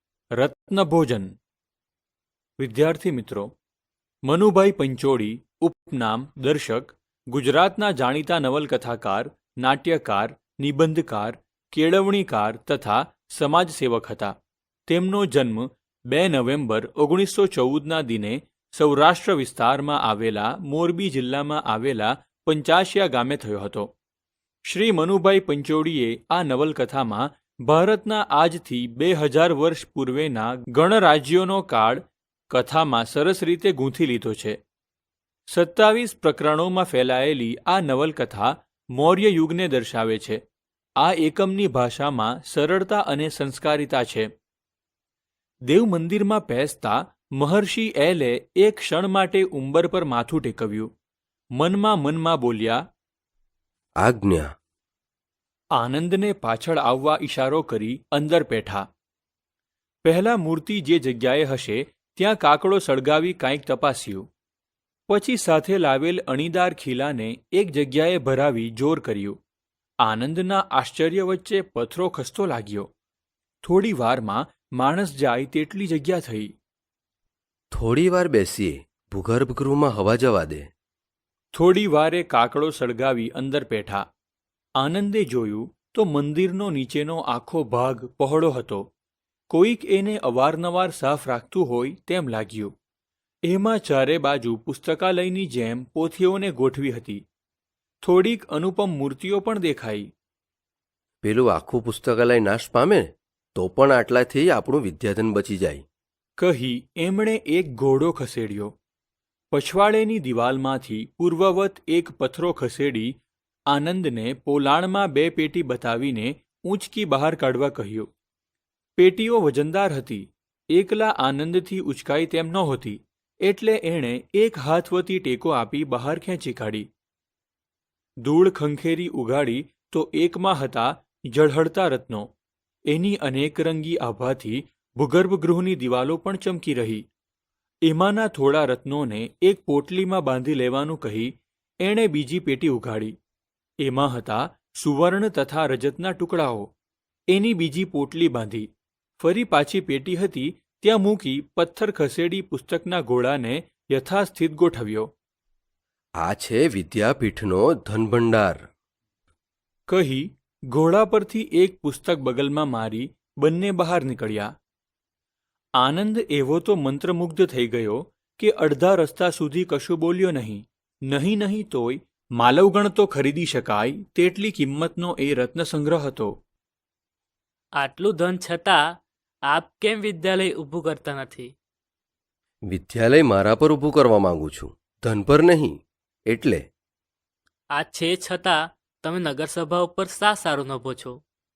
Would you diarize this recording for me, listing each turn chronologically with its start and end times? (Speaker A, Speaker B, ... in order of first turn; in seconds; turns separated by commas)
Speaker A: 0.4-1.3, Speaker A: 2.6-3.5, Speaker A: 4.2-14.3, Speaker A: 14.9-23.9, Speaker A: 24.7-34.6, Speaker A: 35.5-40.4, Speaker A: 41.0-44.3, Speaker A: 45.7-50.9, Speaker A: 51.6-52.8, Speaker B: 54.0-54.5, Speaker A: 55.8-58.9, Speaker A: 60.0-64.3, Speaker A: 65.1-69.4, Speaker A: 70.0-72.9, Speaker A: 73.6-76.5, Speaker B: 77.7-80.7, Speaker A: 81.5-84.1, Speaker A: 84.8-88.9, Speaker A: 89.5-92.7, Speaker A: 93.5-97.2, Speaker A: 98.0-100.1, Speaker B: 101.2-105.8, Speaker A: 106.4-108.7, Speaker A: 109.5-113.2, Speaker A: 113.7-118.1, Speaker A: 119.0-126.9, Speaker A: 128.2-132.3, Speaker A: 132.9-137.1, Speaker A: 137.8-143.2, Speaker A: 143.8-146.7, Speaker A: 147.3-155.1, Speaker B: 156.2-158.6, Speaker A: 159.9-164.5, Speaker A: 165.8-176.3, Speaker C: 177.8-178.8, Speaker C: 179.5-181.5, Speaker B: 182.7-186.7, Speaker C: 187.7-191.2